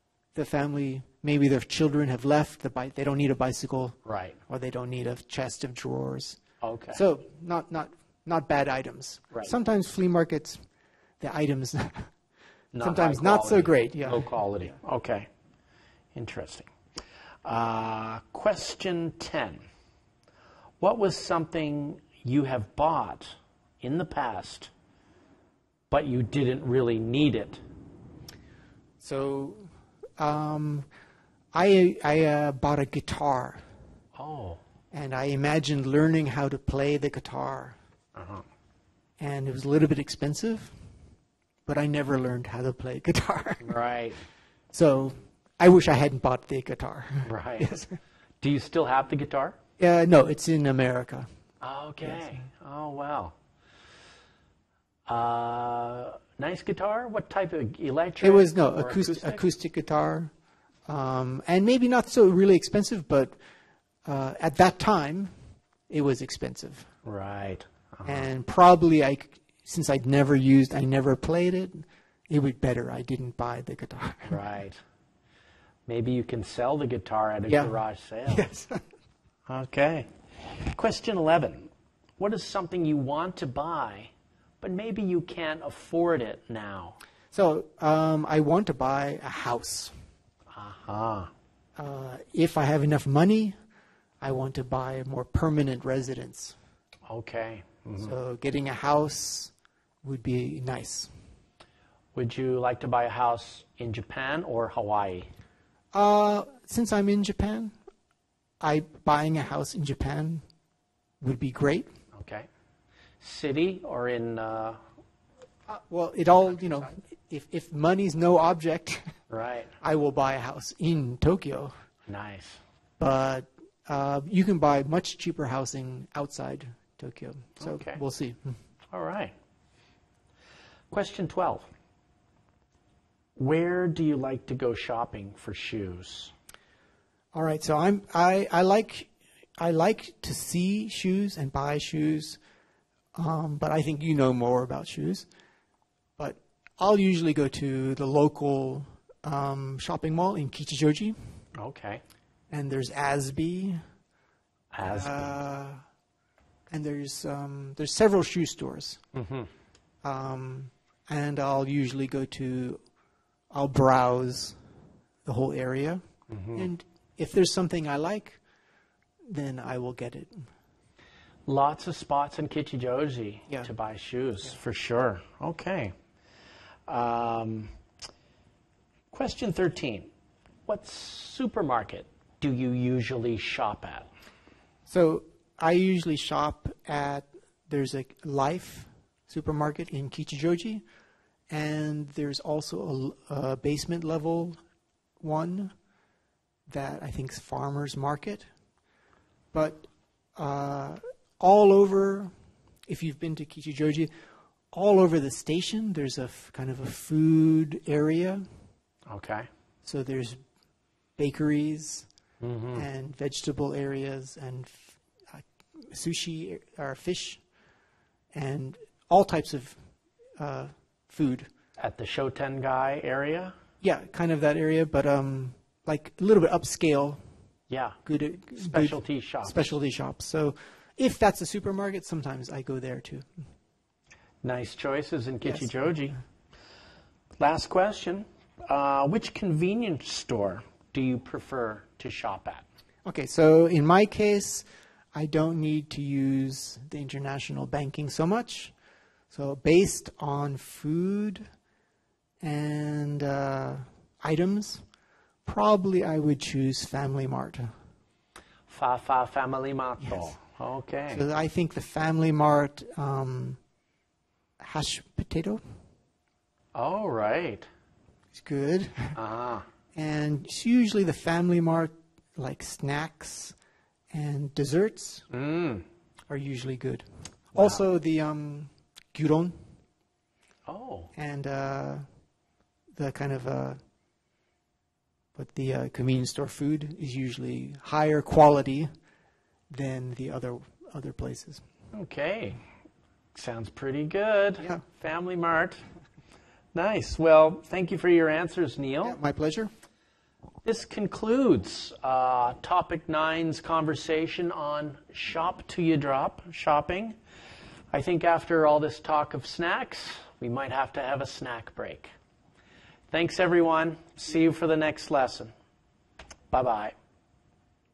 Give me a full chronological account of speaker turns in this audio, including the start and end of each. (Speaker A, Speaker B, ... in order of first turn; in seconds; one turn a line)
Speaker A: 0.3-4.0
Speaker B: 4.0-4.4
Speaker A: 4.5-6.4
Speaker B: 6.6-7.0
Speaker A: 6.9-10.6
Speaker A: 11.2-12.1
Speaker B: 12.7-15.3
Speaker A: 12.8-14.7
Speaker B: 16.1-16.7
Speaker B: 17.4-19.6
Speaker B: 20.8-24.7
Speaker B: 25.9-27.6
Speaker A: 29.0-29.7
Speaker A: 30.2-30.9
Speaker A: 31.5-33.6
Speaker B: 34.2-34.6
Speaker A: 34.9-37.8
Speaker B: 38.1-38.5
Speaker A: 39.2-40.8
Speaker A: 41.7-43.8
Speaker B: 43.6-44.2
Speaker A: 44.7-48.0
Speaker B: 47.2-47.8
Speaker B: 48.4-49.6
Speaker A: 49.8-51.3
Speaker B: 51.6-53.4
Speaker A: 52.0-52.4
Speaker B: 55.1-59.4
Speaker A: 58.2-60.3
Speaker A: 60.9-63.4
Speaker A: 64.0-65.3
Speaker A: 65.9-66.9
Speaker B: 67.0-68.3
Speaker A: 68.0-74.4
Speaker B: 74.3-74.8
Speaker B: 75.9-78.5
Speaker A: 77.5-77.8
Speaker A: 78.3-78.8
Speaker B: 79.5-87.0
Speaker A: 87.3-89.9
Speaker B: 90.5-91.3
Speaker A: 91.8-93.5
Speaker A: 94.2-96.6
Speaker B: 97.1-98.2
Speaker A: 98.0-101.1
Speaker B: 102.2-105.3
Speaker A: 105.9-107.7
Speaker A: 108.6-110.4
Speaker A: 111.2-111.9
Speaker B: 112.1-112.5
Speaker B: 113.2-114.8
Speaker A: 115.7-119.1
Speaker B: 119.3-119.7
Speaker A: 119.8-121.7
Speaker B: 122.1-122.6
Speaker A: 123.0-128.6
Speaker B: 127.6-128.0
Speaker B: 128.9-129.3
Speaker B: 130.9-131.7
Speaker B: 133.4-136.3
Speaker A: 137.3-142.4
Speaker A: 143.2-145.3
Speaker A: 146.2-151.2
Speaker B: 151.6-152.0
Speaker A: 152.5-153.8
Speaker B: 154.7-155.4
Speaker A: 154.8-155.8
Speaker A: 156.7-159.0
Speaker B: 159.1-159.5
Speaker A: 160.0-162.8
Speaker A: 163.5-164.6
Speaker A: 165.2-168.4
Speaker B: 166.3-166.7
Speaker A: 169.3-170.5
Speaker B: 171.5-175.9
Speaker B: 176.9-177.7
Speaker B: 179.1-180.1
Speaker B: 180.7-184.1
Speaker A: 184.9-190.8
Speaker A: 191.5-194.6
Speaker A: 195.2-195.7
Speaker A: 196.7-198.5
Speaker A: 199.5-202.3
Speaker A: 202.9-204.1
Speaker A: 204.7-208.5
Speaker B: 209.1-209.5
Speaker A: 209.8-210.4
Speaker A: 211.2-212.1
Speaker B: 212.4-212.8
Speaker A: 212.7-217.4
Speaker A: 218.3-219.8
Speaker A: 220.4-221.5
Speaker B: 221.8-223.6
Speaker A: 223.8-227.2
Speaker B: 227.7-228.0
Speaker A: 228.1-233.3
Speaker B: 228.6-229.7
Speaker B: 234.4-236.2
Speaker A: 235.4-235.7
Speaker B: 237.4-242.7
Speaker A: 243.1-248.7
Speaker A: 249.3-251.4
Speaker A: 252.4-254.8
Speaker A: 255.5-257.7
Speaker B: 258.7-261.3
Speaker A: 261.1-263.6
Speaker A: 264.6-265.6
Speaker B: 266.8-267.7
Speaker A: 268.3-269.2
Speaker B: 269.2-269.7
Speaker A: 269.9-273.6
Speaker A: 274.1-275.3
Speaker B: 275.3-275.9
Speaker A: 276.3-279.6
Speaker B: 277.5-277.8
Speaker B: 280.7-281.1
Speaker A: 281.2-282.0
Speaker A: 282.9-283.8
Speaker A: 285.4-288.9
Speaker A: 289.7-291.6
Speaker B: 291.9-292.6
Speaker B: 293.3-295.8
Speaker B: 296.7-299.2
Speaker A: 299.0-299.7
Speaker B: 300.6-307.2
Speaker B: 307.9-312.1
Speaker B: 313.1-315.5
Speaker B: 316.5-316.9